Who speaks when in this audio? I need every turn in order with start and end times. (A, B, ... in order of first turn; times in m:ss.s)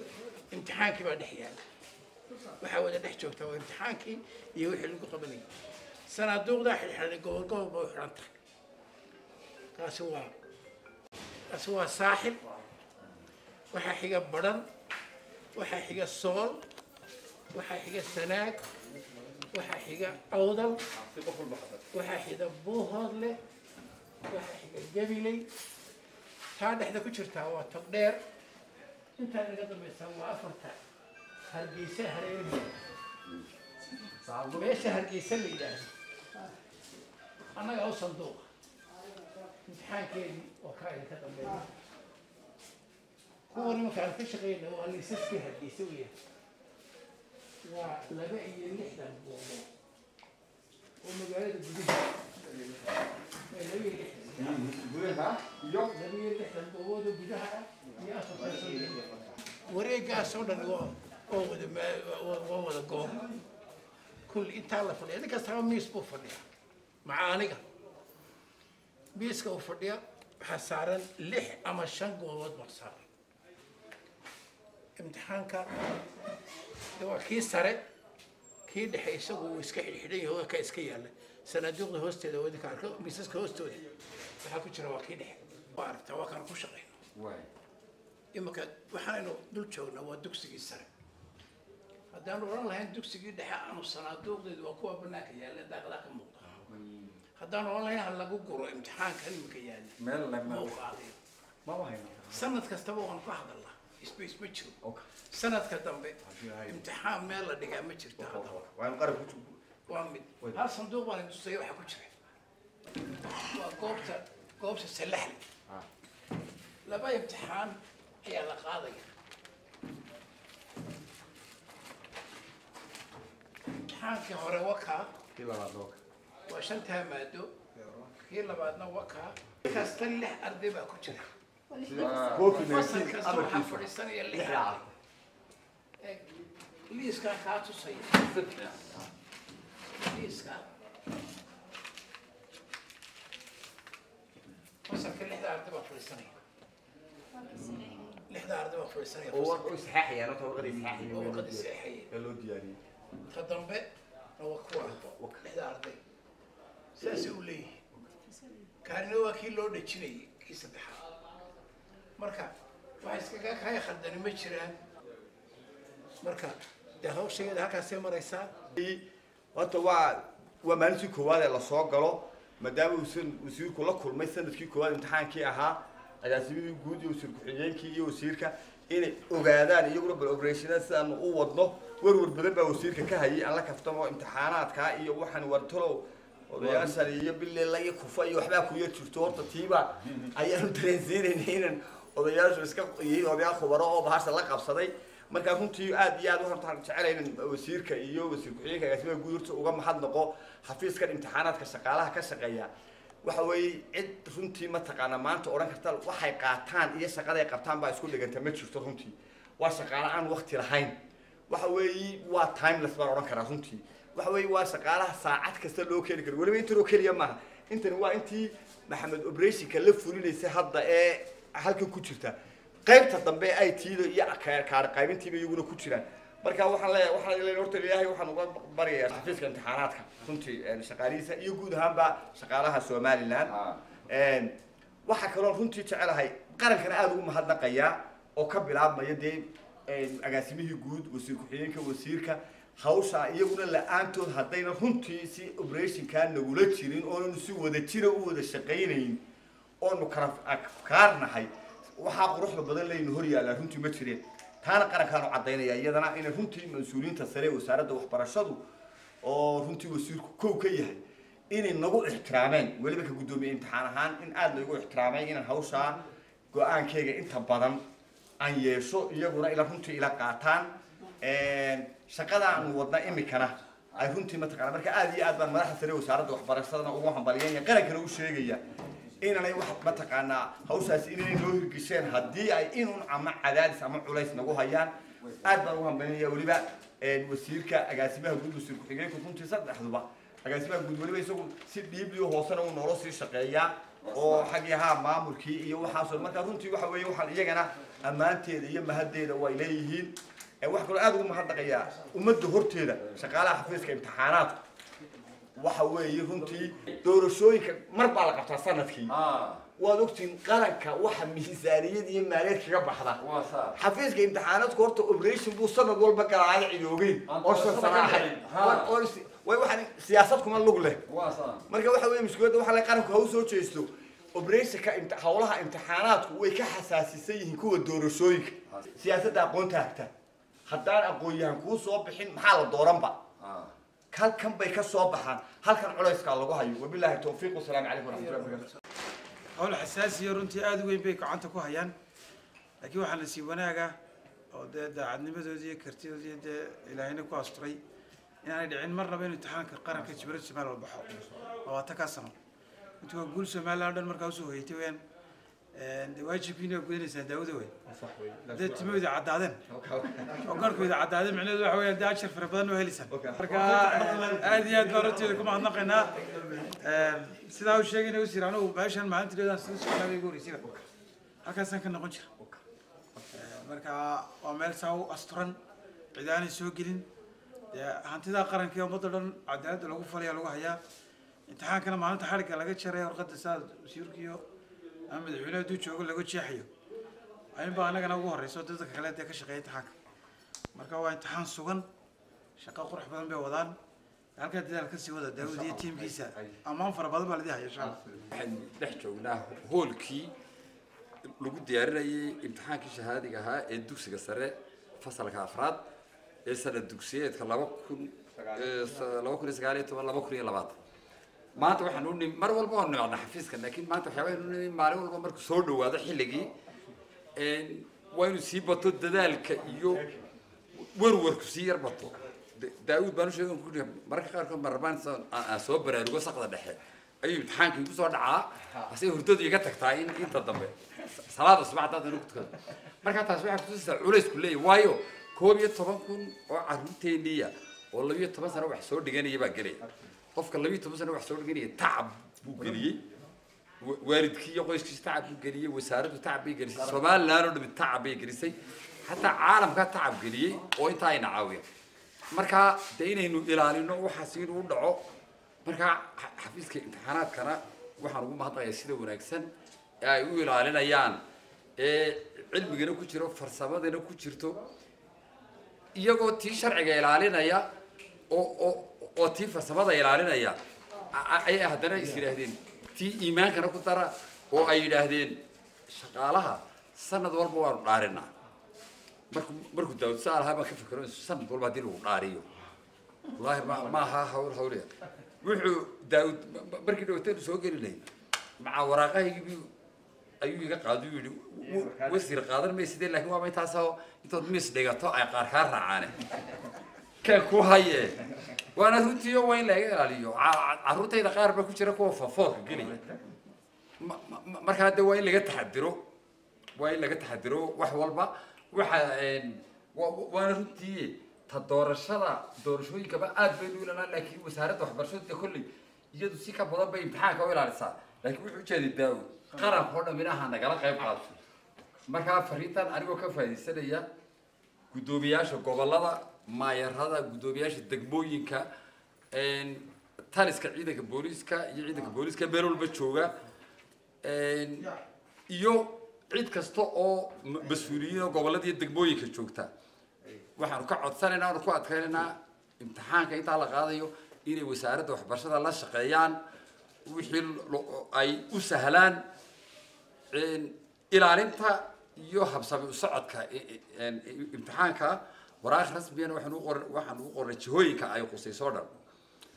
0:00.5-0:01.6 A
0:02.6-0:05.4 A
0:06.1-0:08.4 A
0:09.7-0:10.3 A
0:11.5-0:12.4 A
0:13.7-0:14.6 A
0:15.5-0:16.6 A
0:17.5-0:18.6 A
0:19.5-0:20.8 A
0:20.9-0:21.8 B
0:21.9-0:23.4 A
0:24.2-0:25.5 A
0:26.5-0:28.2 A
0:29.2-0:30.8 A
0:31.5-0:32.7 A
0:34.2-0:34.8 B
0:34.5-0:35.9 A
0:37.5-0:38.4 A
0:39.6-0:41.6 A
0:43.5-0:46.1 A
0:47.6-0:49.7 A
0:51.0-0:52.2 A
0:53.5-0:54.6 A
0:54.4-0:55.9 B
0:55.9-0:59.0 A
0:59.7-1:03.4 A
1:04.3-1:06.4 A
1:07.0-1:07.6 A
1:09.1-1:13.0 A
1:15.0-1:15.7 A
1:17.0-1:17.8 A
1:18.6-1:23.8 A
1:24.4-1:27.0 A
1:27.1-1:27.5 B
1:28.3-1:30.9 A
1:32.1-1:36.5 A
1:36.7-1:37.1 B
1:37.4-1:41.2 A
1:40.0-1:40.7 B
1:41.6-1:42.5 C
1:42.3-1:44.7 A
1:45.3-1:48.6 A
1:46.3-1:46.8 C
1:48.2-1:49.6 C
1:49.9-1:52.1 A
1:53.3-1:55.4 A
1:56.8-1:59.1 A
2:03.8-2:05.1 A
2:05.3-2:06.0 C
2:06.5-2:07.5 A
2:08.1-2:11.3 A
2:11.8-2:12.8 B
2:11.8-2:14.9 C
2:12.5-2:14.8 A
2:16.0-2:16.3 A
2:16.9-2:18.3 A
2:18.2-2:19.0 B
2:19.9-2:20.6 A
2:24.8-2:26.4 A
2:27.5-2:28.0 C
2:28.1-2:29.7 A
2:29.3-2:32.8 C
2:31.0-2:32.1 A
2:33.3-2:33.9 A
2:34.4-2:36.0 A
2:34.8-2:35.4 C
2:37.0-2:37.8 A
2:38.8-2:41.0 A
2:42.2-2:44.8 A
2:46.2-2:48.5 A
2:48.8-2:49.0 C
2:49.5-3:22.7 C
3:23.2-3:30.9 C
3:31.5-3:53.5 C
3:53.5-3:53.8 B
3:54.1-3:54.5 C
3:55.0-4:09.2 C
4:09.8-4:18.6 C
4:19.2-4:26.0 C
4:26.5-4:27.8 C
4:28.4-4:38.6 C
4:39.2-4:44.9 C
4:45.4-5:04.6 C
4:54.0-4:54.5 B
5:05.6-5:09.1 C
5:09.1-5:09.6 B
5:09.8-5:13.2 C
5:13.2-5:13.8 B
5:13.8-5:21.0 C
5:17.3-5:18.9 B
5:21.1-5:21.6 B
5:21.7-5:30.1 C
5:30.7-5:33.2 C
5:33.4-5:33.7 B
5:34.1-5:38.7 C
5:39.5-5:41.9 D
5:42.8-5:43.9 D
5:44.5-5:47.8 D
5:48.4-5:52.3 D
5:53.0-5:55.0 D
5:55.7-5:57.7 D
5:57.8-5:59.0 C
5:58.5-5:59.6 D
5:59.7-6:00.7 C
6:00.4-6:06.1 D
6:03.1-6:06.7 C
6:06.8-6:10.6 D
6:11.4-6:12.3 D
6:13.3-6:15.6 D
6:16.1-6:17.0 D
6:17.7-6:20.8 D
6:21.5-6:24.4 D
6:25.1-6:26.7 D
6:27.5-6:29.9 D
6:30.7-6:31.8 D
6:32.6-6:33.8 D
6:34.4-6:38.0 D
6:35.4-6:36.6 B
6:38.2-6:40.3 B
6:41.4-6:45.8 B
6:46.4-6:50.8 B
6:48.4-6:48.8 C
6:51.6-6:56.5 B
6:57.4-7:00.0 B
6:59.9-7:00.2 C
7:00.7-7:19.8 B
7:20.3-7:23.0 B
7:23.8-7:31.6 B
7:32.3-7:35.0 B
7:35.6-7:39.5 B
7:40.0-7:41.2 B
7:41.8-7:44.6 B
7:46.0-7:47.6 B
7:48.3-7:50.6 B
7:51.1-7:58.3 B
7:59.3-8:02.4 B
8:03.4-8:04.9 B
8:05.4-8:08.0 B
8:08.6-8:09.7 B
8:10.4-8:16.2 B
8:11.6-8:12.3 C
8:17.2-8:18.2 B
8:18.7-8:23.0 B
8:24.0-8:26.0 B
8:26.8-8:41.4 B
8:42.1-8:44.1 B
8:44.9-8:48.6 B
8:49.3-8:53.3 B
8:54.2-8:54.9 B
8:55.5-8:59.7 B
9:00.6-9:06.4 B
9:07.0-9:09.2 B
9:10.3-9:19.0 B